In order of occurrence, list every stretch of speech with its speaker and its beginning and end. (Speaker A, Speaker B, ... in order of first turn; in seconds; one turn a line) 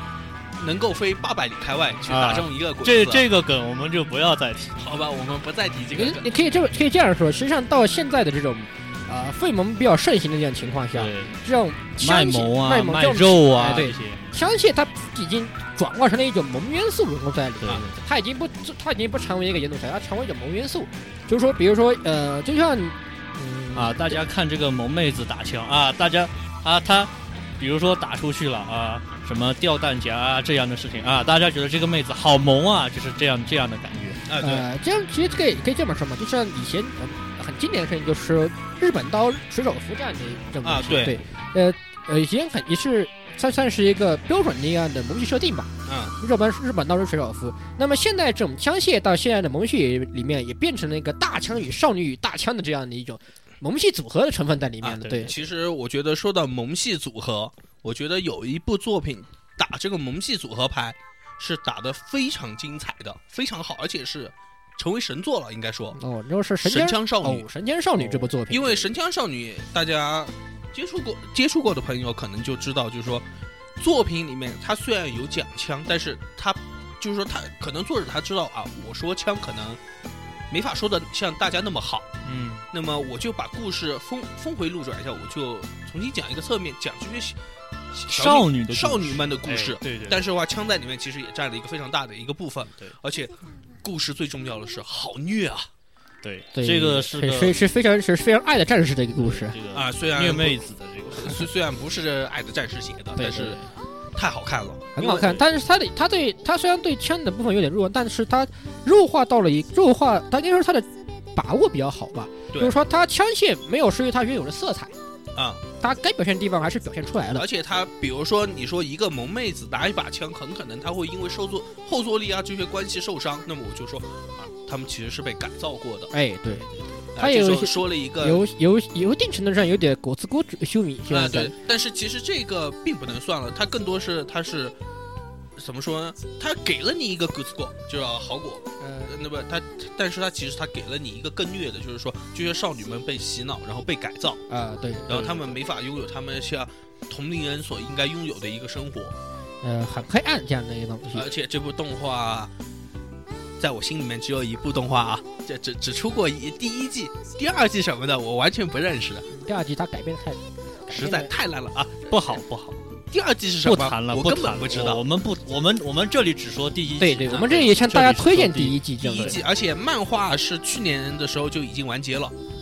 Speaker A: 0.6-3.2
Speaker B: 2.1-4.8
Speaker A: 4.8-6.3
Speaker C: 5.9-24.2
Speaker B: 10.9-11.3
Speaker B: 12.0-14.2
Speaker B: 17.6-17.9
Speaker B: 23.7-34.3
Speaker A: 34.3-34.6
Speaker C: 34.4-55.3
Speaker A: 40.6-41.2
Speaker A: 45.9-46.1
Speaker A: 54.8-66.0
Speaker C: 66.0-68.8
Speaker A: 66.6-67.5
Speaker B: 68.0-68.3
Speaker A: 68.5-73.3
Speaker A: 73.8-79.8
Speaker A: 80.5-82.1
Speaker B: 82.2-82.7
Speaker A: 82.7-87.4
Speaker A: 87.9-95.7
Speaker B: 88.1-90.2
Speaker B: 96.2-97.6
Speaker C: 96.5-99.5
Speaker B: 99.2-101.5
Speaker A: 99.7-103.6
Speaker C: 103.2-103.7
Speaker A: 104.1-105.4
Speaker C: 105.0-114.9
Speaker A: 115.3-115.6
Speaker C: 115.8-117.5
Speaker A: 117.3-126.1
Speaker C: 126.1-131.5
Speaker A: 127.1-128.4
Speaker A: 131.1-134.8
Speaker A: 135.6-144.4
Speaker C: 138.8-139.1
Speaker C: 144.5-145.2
Speaker A: 145.1-149.2
Speaker B: 145.1-145.5
Speaker C: 149.6-151.3
Speaker A: 151.1-152.5
Speaker A: 153.6-159.3
Speaker C: 159.3-161.3
Speaker A: 160.9-162.2
Speaker B: 162.1-162.8
Speaker A: 163.1-165.0
Speaker B: 163.6-169.4
Speaker C: 167.0-169.4
Speaker A: 169.0-172.3